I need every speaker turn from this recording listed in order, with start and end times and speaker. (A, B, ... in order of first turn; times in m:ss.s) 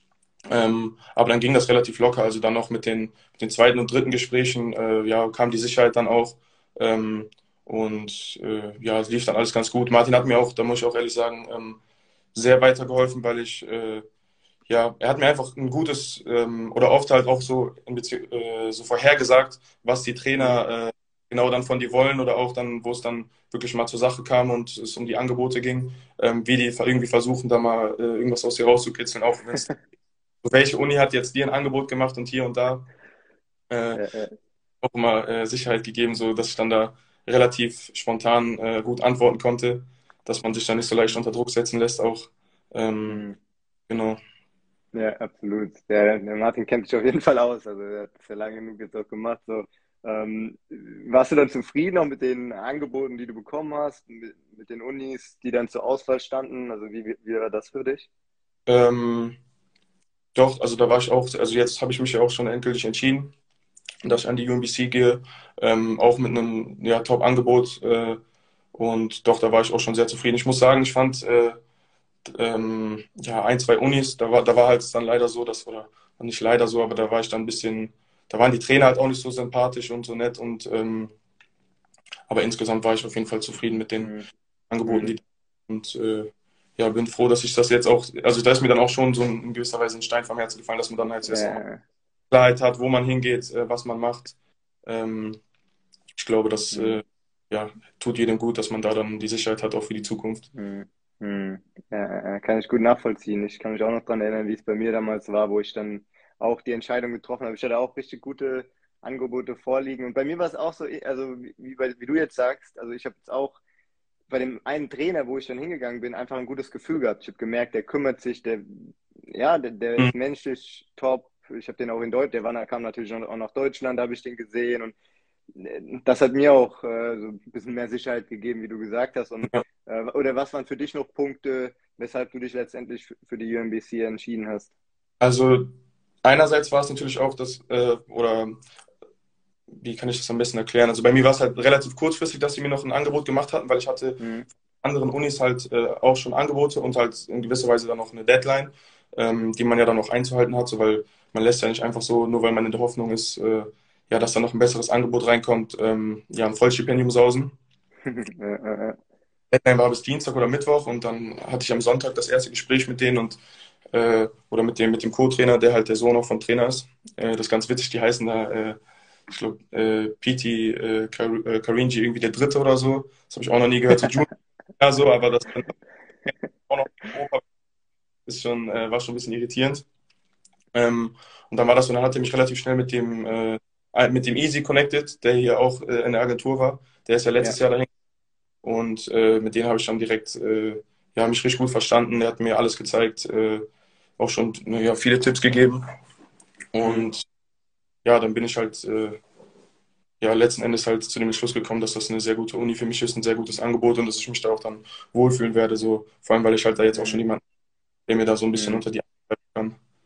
0:00.5-0:11.8 A
0:12.3-0:14.0 A
0:14.7-0:29.7 A
0:30.4-0:32.9 A
0:33.7-0:34.0 A
0:33.9-0:34.4 B
0:34.8-0:43.2 A
0:43.1-0:43.4 B
0:43.9-0:44.2 A
0:44.9-0:58.1 B
0:58.7-0:59.4 A
1:00.4-1:03.3 A
1:04.0-1:08.2 A
1:08.7-1:11.6 A
1:12.3-1:21.1 A
1:22.3-1:24.1 A
1:24.0-1:24.3 B
1:24.7-1:31.6 A
1:24.9-1:25.2 B
1:31.3-1:31.8 B
1:32.3-1:34.4 A
1:34.9-1:35.4 A
1:36.2-1:40.5 A
1:36.7-1:37.0 B
1:40.6-1:53.6 B
1:54.3-2:04.9 B
2:05.6-2:14.7 B
2:15.2-2:15.7 A
2:16.2-2:18.6 A
2:19.8-2:24.2 A
2:24.2-2:24.5 B
2:24.8-2:37.5 A
2:38.1-2:39.0 B
2:39.5-2:43.4 A
2:43.9-2:48.8 A
2:49.3-2:54.3 A
2:54.8-2:55.7 A
2:56.2-2:57.4 A
2:58.3-2:59.8 A
3:00.7-3:07.9 A
3:08.6-3:13.6 A
3:14.2-3:15.8 A
3:16.7-3:17.2 A
3:18.0-3:19.2 A
3:20.2-3:27.4 A
3:26.9-3:27.2 B
3:28.1-3:29.8 A
3:28.5-3:28.8 B